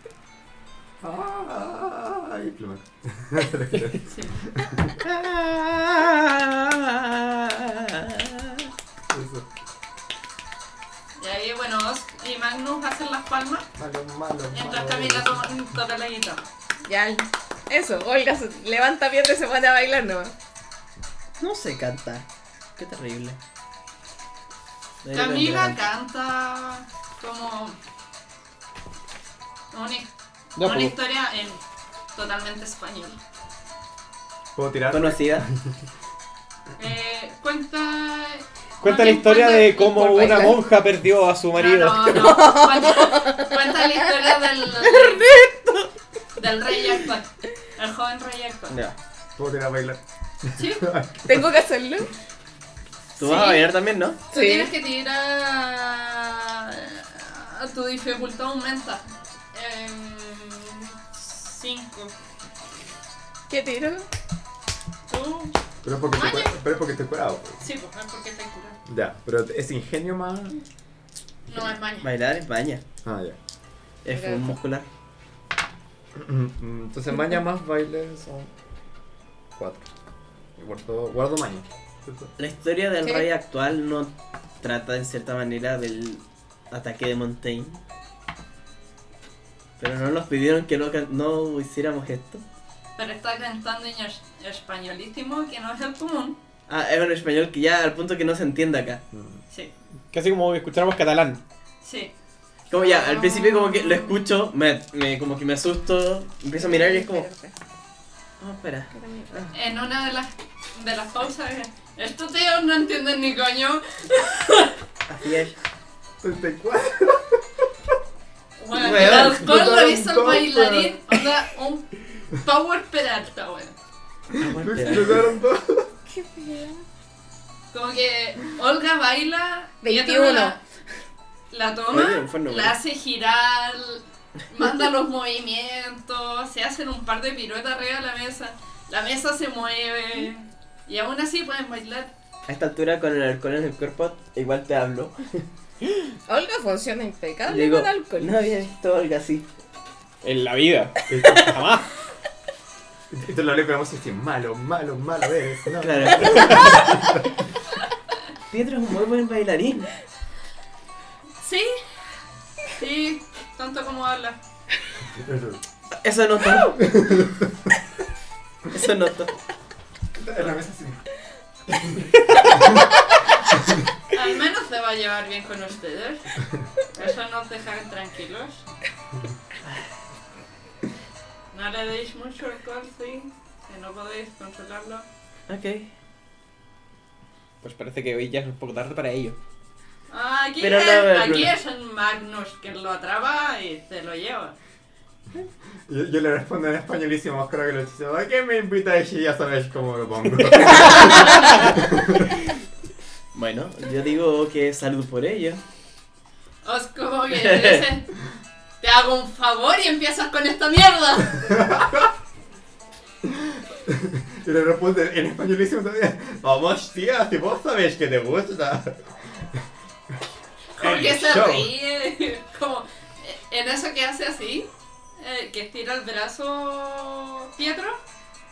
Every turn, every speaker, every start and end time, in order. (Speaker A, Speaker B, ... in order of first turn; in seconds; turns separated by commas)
Speaker A: 1.0-5.0, Speaker B: 4.1-4.4, Speaker C: 5.0-8.7, Speaker A: 9.1-9.5, Speaker B: 11.2-13.7, Speaker A: 13.8-15.5, Speaker B: 14.5-16.5, Speaker D: 16.9-20.3, Speaker C: 21.4-22.3, Speaker C: 22.8-23.4, Speaker C: 25.0-25.8, Speaker B: 25.1-27.8, Speaker B: 29.7-31.6, Speaker E: 30.6-30.9, Speaker B: 32.1-33.2, Speaker A: 34.6-35.7, Speaker C: 34.9-35.5, Speaker B: 36.8-40.3, Speaker E: 38.8-42.4, Speaker D: 39.8-40.6, Speaker B: 41.5-45.3, Speaker D: 42.1-44.3, Speaker C: 44.8-45.9, Speaker B: 46.4-48.8, Speaker C: 48.7-49.0, Speaker A: 49.4-51.5, Speaker B: 50.6-50.9, Speaker D: 51.3-52.1, Speaker B: 53.2-53.7, Speaker C: 53.2-54.2, Speaker B: 54.3-62.1, Speaker D: 54.3-54.7, Speaker D: 63.5-64.1, Speaker B: 65.1-65.5, Speaker A: 65.8-67.6, Speaker B: 66.1-66.6, Speaker B: 67.6-68.8, Speaker A: 68.9-70.6, Speaker B: 71.5-72.1, Speaker C: 72.0-72.8, Speaker A: 73.0-73.4, Speaker C: 74.0-74.9, Speaker D: 74.1-74.6, Speaker A: 76.2-78.5, Speaker A: 79.6-79.9, Speaker A: 80.6-82.3, Speaker C: 82.4-87.8, Speaker D: 83.0-83.3, Speaker C: 89.8-92.4, Speaker B: 93.0-96.4, Speaker C: 96.7-99.0, Speaker A: 99.1-99.4, Speaker E: 100.1-101.4, Speaker B: 101.8-102.1, Speaker C: 102.7-107.3, Speaker B: 102.8-104.1, Speaker D: 106.6-107.5, Speaker C: 108.4-109.5, Speaker D: 108.9-109.3, Speaker B: 109.5-114.7, Speaker C: 115.1-115.6, Speaker A: 116.2-117.4, Speaker B: 118.6-123.8, Speaker C: 118.8-119.4, Speaker A: 118.8-121.0, Speaker C: 124.4-125.3, Speaker A: 124.4-125.9, Speaker D: 126.1-126.8, Speaker B: 127.7-130.6, Speaker D: 129.8-130.6, Speaker B: 131.5-142.1, Speaker C: 131.9-132.8, Speaker C: 142.5-145.4, Speaker D: 146.3-148.4, Speaker C: 147.5-149.5, Speaker E: 150.2-151.9, Speaker A: 151.1-151.6, Speaker A: 153.1-157.3, Speaker C: 155.8-156.8, Speaker C: 158.5-159.9, Speaker B: 161.4-161.8, Speaker B: 162.7-164.4, Speaker A: 165.1-165.6, Speaker C: 166.0-166.8, Speaker A: 166.8-167.7, Speaker C: 168.7-169.3, Speaker A: 170.2-171.0, Speaker A: 171.7-172.9, Speaker B: 174.1-176.3, Speaker B: 176.9-178.7, Speaker B: 181.5-185.1, Speaker C: 185.5-185.9, Speaker E: 187.6-189.4, Speaker B: 190.1-194.6, Speaker C: 190.6-191.5, Speaker A: 195.9-202.3, Speaker C: 203.3-205.6, Speaker B: 206.6-208.1, Speaker C: 207.3-207.9, Speaker B: 208.8-211.6, Speaker A: 211.4-212.1, Speaker A: 213.2-219.6, Speaker B: 220.8-228.0, Speaker A: 220.8-221.7